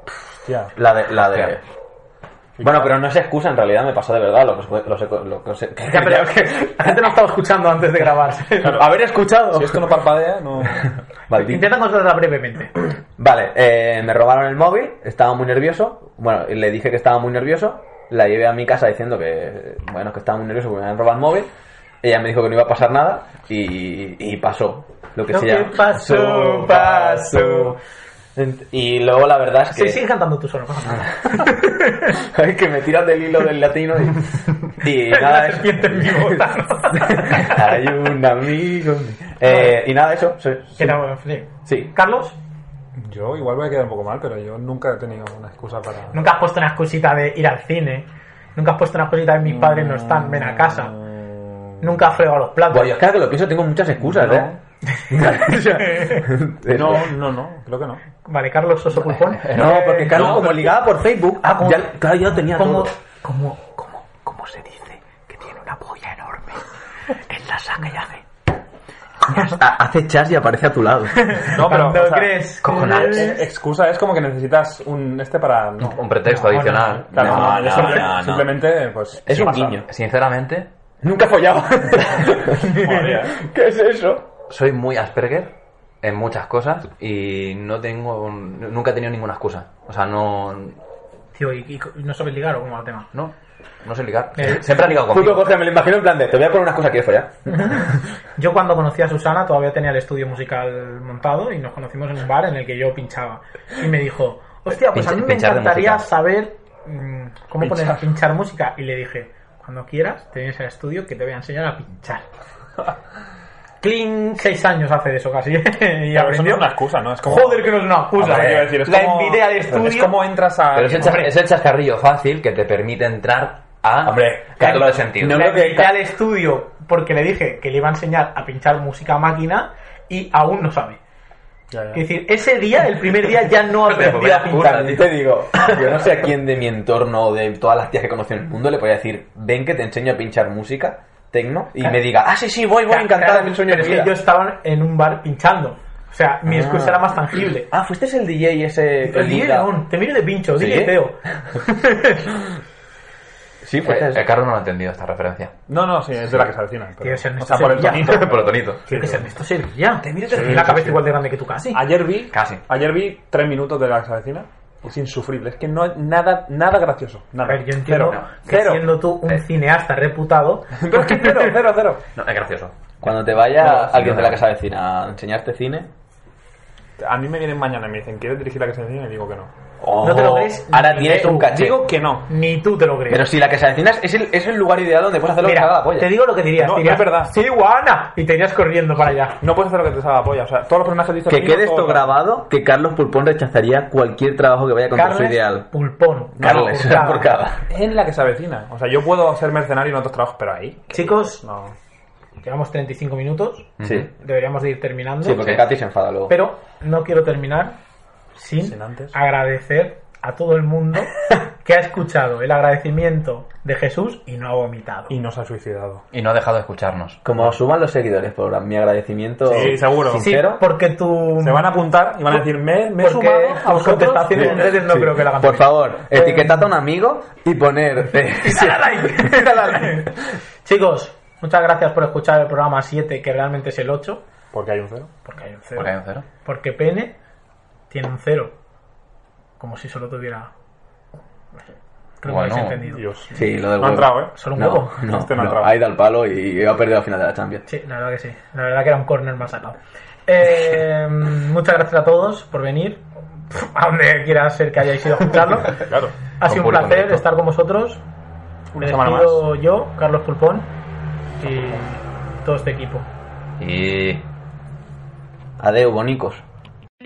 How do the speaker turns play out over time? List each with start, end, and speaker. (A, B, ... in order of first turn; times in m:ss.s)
0:00.4-0:00.7 A
0:00.7-0:01.6 B
0:02.6-0:02.9 A
0:02.6-0:07.1 B
0:05.9-0:08.8 C
0:08.6-0:10.0 B
0:09.4-0:10.9 A
0:11.3-0:11.7 B
0:11.3-0:12.7 C
0:13.2-0:21.5 B
0:22.0-0:27.8 B
0:25.3-0:27.7 C
0:28.3-0:30.0 B
0:29.7-0:32.1 C
0:31.3-0:41.0 B
0:34.9-0:37.6 C
0:39.4-0:39.7 C
0:40.8-0:42.4 C
0:41.6-0:41.9 B
0:43.0-0:46.2 A
0:46.1-0:50.9 C
0:49.4-0:51.9 A
0:51.8-0:53.0 C
0:52.7-0:54.5 B
0:54.0-0:54.6 A
0:54.9-0:56.3 C
0:55.1-0:57.1 B
0:56.6-0:58.0 A
0:58.2-1:00.8 C
0:58.9-1:00.6 D
0:59.5-1:02.9 B
1:01.4-1:04.4 C
1:04.2-1:06.0 B
1:05.3-1:06.6 C
1:07.3-1:08.2 B
1:09.3-1:11.5 B
1:11.1-1:13.4 C
1:11.5-1:16.0 A
1:12.6-1:13.4 B
1:15.8-1:18.1 D
1:16.2-1:17.1 C
1:17.1-1:19.8 A
1:17.1-1:18.6 B
1:19.2-1:19.8 B
1:19.8-1:20.7 D
1:21.0-1:24.3 B
1:22.6-1:23.0 C
1:22.8-1:23.3 A
1:24.5-1:30.8 D
1:31.3-1:33.1 C
1:33.1-1:35.6 D
1:34.4-1:34.6 C
1:34.6-1:37.9 B
1:37.5-1:52.2 C
1:44.9-1:46.0 D
1:47.6-1:48.0 A
1:53.8-1:56.7 C
1:56.1-2:01.3 A
1:57.2-2:00.2 C
2:00.7-2:05.4 D
2:01.0-2:01.3 C
2:04.0-2:06.0 B
2:04.6-2:11.0 C
2:11.7-2:12.0 A
2:11.9-2:14.8 C
2:13.7-2:15.1 D
2:14.4-2:24.2 B
2:22.9-2:27.7 C
2:26.4-2:29.8 B
2:29.0-2:32.3 C
2:30.6-2:31.0 B
2:33.6-2:34.3 B
2:33.8-2:35.6 D
2:35.7-2:39.2 A
2:37.0-2:41.8 C
2:38.0-2:38.8 D
2:40.1-2:40.7 D
2:40.1-2:41.0 A
2:41.7-2:48.8 A
2:42.3-2:42.6 D
2:47.4-2:51.6 C
2:48.0-2:48.8 D
2:50.8-2:52.0 A
2:52.1-2:52.8 D
2:53.0-2:55.9 B
2:53.6-2:54.4 D
2:57.0-2:59.5 A
2:59.8-3:01.8 B
3:00.0-3:01.6 C
3:01.5-3:02.3 A
3:02.3-3:03.3 C
3:03.1-3:06.1 B
3:05.4-3:09.4 C
3:06.6-3:07.3 A
3:09.4-3:12.1 A
3:11.3-3:15.7 B
3:14.9-3:17.3 C
3:16.4-3:17.6 B
3:16.4-3:16.9 A
3:17.7-3:21.7 A
3:20.9-3:21.4 C
3:22.4-3:25.6 C
3:23.8-3:24.1 D
3:23.8-3:24.1 B
3:25.2-3:26.4 B
3:25.3-3:25.6 D
3:26.3-3:27.8 C
3:28.4-3:35.1 C
3:28.6-3:29.1 A
3:35.1-3:36.0 A
3:36.1-3:37.2 D
3:37.2-3:40.6 B
3:39.4-3:40.3 A
3:40.1-3:41.7 C
3:41.4-3:44.7 A
3:42.3-3:46.7 C
3:44.3-3:50.1 B
3:48.4-3:50.1 C
3:50.6-3:54.2 C
3:54.5-3:55.1 A
3:55.2-3:55.9 C
3:55.8-3:56.2 D
3:56.4-3:57.2 C
3:57.9-3:58.5 C
3:59.6-4:00.5 C
4:02.2-4:03.0 C
4:02.2-4:02.8 D
4:02.8-4:05.7 A
4:03.3-4:07.6 B
4:04.3-4:04.9 C
4:07.6-4:15.9 C
4:15.9-4:16.1 A
4:16.4-4:18.0 C
4:16.4-4:17.2 D
4:18.7-4:19.4 A
4:18.8-4:20.7 C
4:21.4-4:23.0 C
4:23.6-4:24.2 D
4:25.6-4:26.4 B